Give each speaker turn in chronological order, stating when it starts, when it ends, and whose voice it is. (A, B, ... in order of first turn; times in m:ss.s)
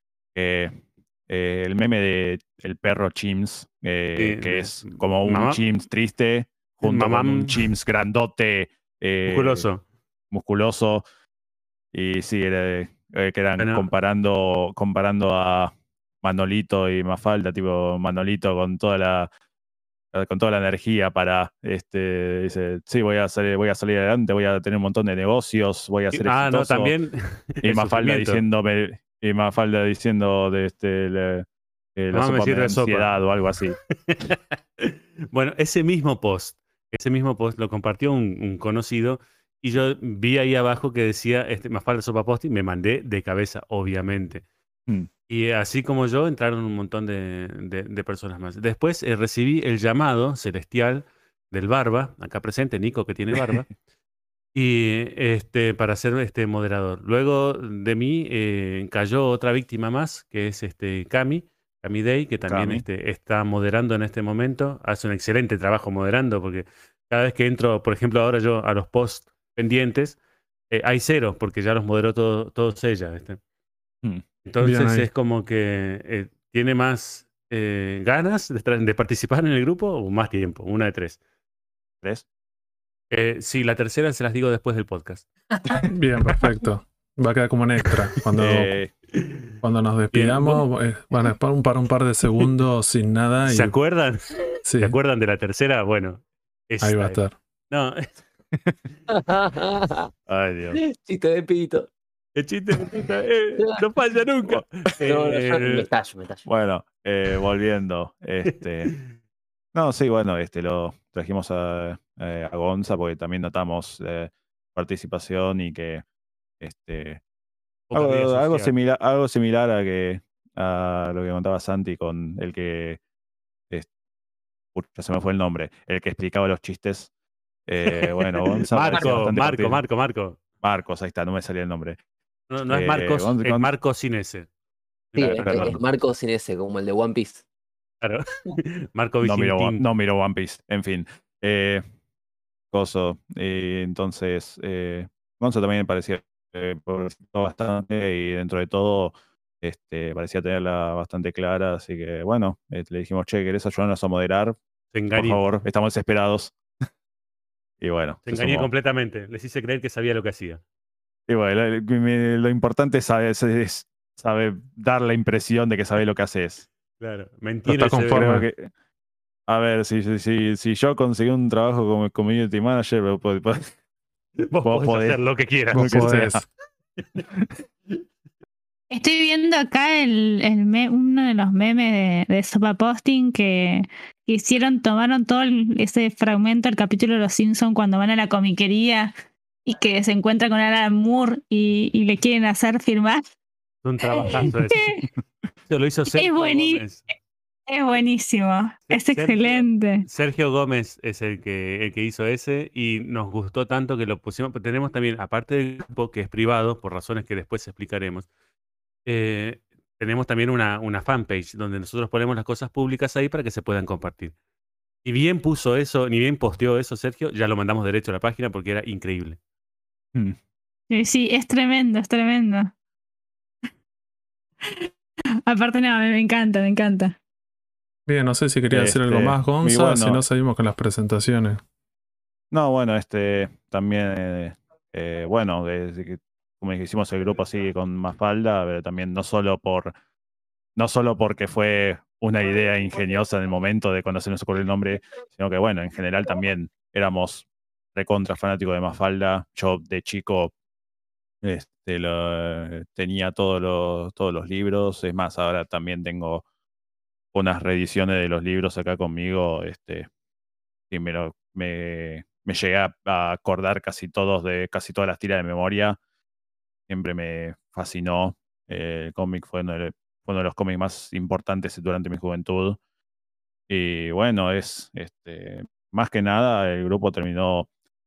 0:00.3-0:09.6 A
0:04.2-0:05.6 B
0:06.8-0:07.7 B
0:09.2-0:09.8 B
0:10.3-0:11.0 A
0:11.9-0:19.3 A
0:13.6-0:13.9 B
0:20.1-0:26.9 A
0:26.1-0:28.4 B
0:27.6-0:33.8 A
0:32.1-0:33.2 B
0:34.1-0:44.4 B
0:45.3-0:53.7 B
0:53.3-0:53.6 A
0:54.5-1:10.2 B
1:02.5-1:02.8 A
1:10.7-1:13.4 B
1:14.4-1:21.2 B
1:14.6-1:15.0 C
1:23.1-1:25.2 B
1:25.7-1:28.8 C
1:28.4-1:28.9 A
1:29.6-1:33.8 C
1:30.1-1:30.6 B
1:33.4-1:38.1 B
1:34.6-1:35.0 C
1:36.8-1:37.4 C
1:39.3-1:40.1 D
1:40.3-1:40.8 A
1:40.7-1:41.9 D
1:42.4-1:45.9 B
1:45.0-1:46.4 D
1:46.4-1:48.9 A
1:49.7-1:56.0 A
1:56.6-1:57.2 A
1:57.9-1:58.7 B
1:57.9-2:03.0 A
2:04.7-2:07.1 A
2:07.7-2:09.8 A
2:08.4-2:10.4 B
2:10.6-2:12.0 A
2:12.5-2:14.5 B
2:12.7-2:13.7 A
2:15.1-2:15.8 B
2:15.2-2:17.4 D
2:15.4-2:15.8 A
2:18.0-2:19.8 B
2:19.2-2:21.8 A
2:22.7-2:34.6 A
2:34.9-2:35.4 B
2:35.1-2:36.5 A
2:37.8-2:38.7 A
2:38.2-2:40.6 B
2:41.3-2:46.7 A
2:47.0-2:48.3 B
2:47.7-2:48.4 C
2:48.0-2:48.7 A
2:49.5-2:53.7 A
2:54.5-2:56.2 B
2:54.6-2:56.4 A
2:55.7-2:56.5 C
2:58.9-3:09.1 E
3:09.6-3:13.2 E
3:13.8-3:14.9 B
3:14.0-3:15.0 E
3:15.7-3:17.0 B
3:16.1-3:16.8 E
3:17.7-3:20.0 E
3:18.9-3:28.3 B
3:29.0-3:34.3 B
3:35.0-3:39.4 B
3:40.9-3:42.7 E
3:45.5-3:47.2 E
3:48.1-3:51.6 C
3:48.7-3:50.2 A
3:52.5-3:59.9 A
4:00.8-4:10.5 A
4:11.4-4:16.4 A
4:17.3-4:20.1 A
4:20.9-4:26.0 A
4:26.9-4:32.8 A
4:33.7-4:37.7 A